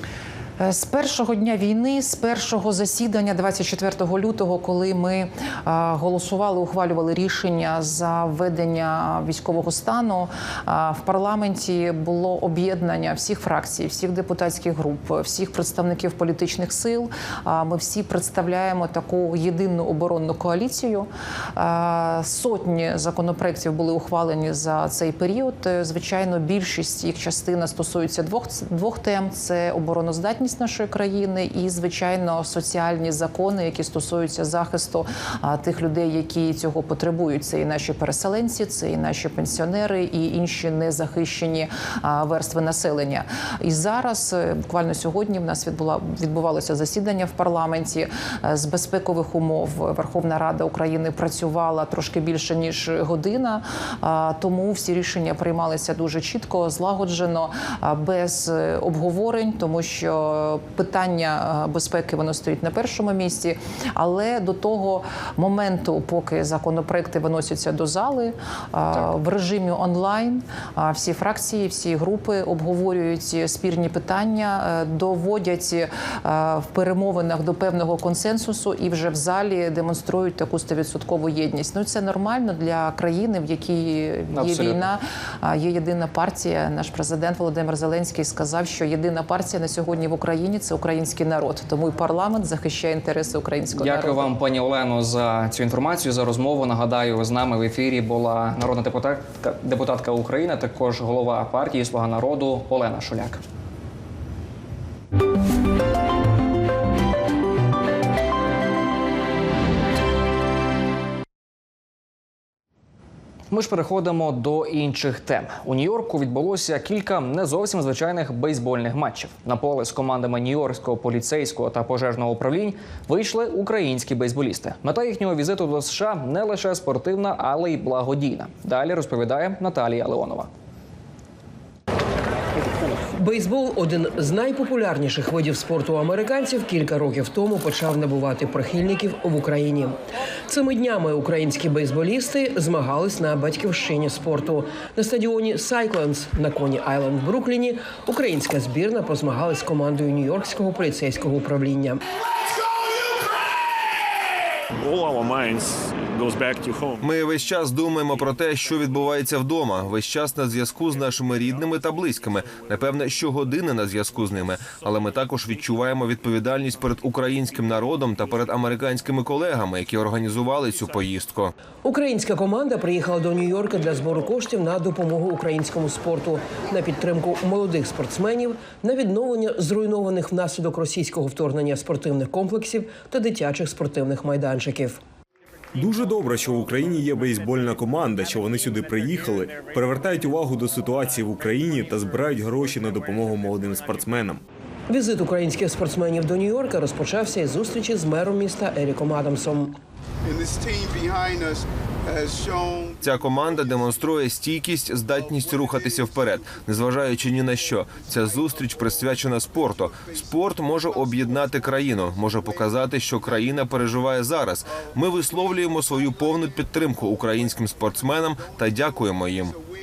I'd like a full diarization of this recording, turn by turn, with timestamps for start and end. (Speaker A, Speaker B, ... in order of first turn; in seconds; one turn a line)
Speaker A: 0.6-94.3
Speaker B: 84.3-84.8
Speaker B: 93.8-103.4
Speaker B: 113.5-130.5
Speaker C: 133.0-140.0
Speaker C: 140.5-152.0
Speaker D: 154.8-157.0
Speaker E: 157.0-171.5
Speaker C: 171.8-185.0
Speaker F: 185.7-194.4
Speaker C: 194.9-199.8
Speaker E: 203.0-219.5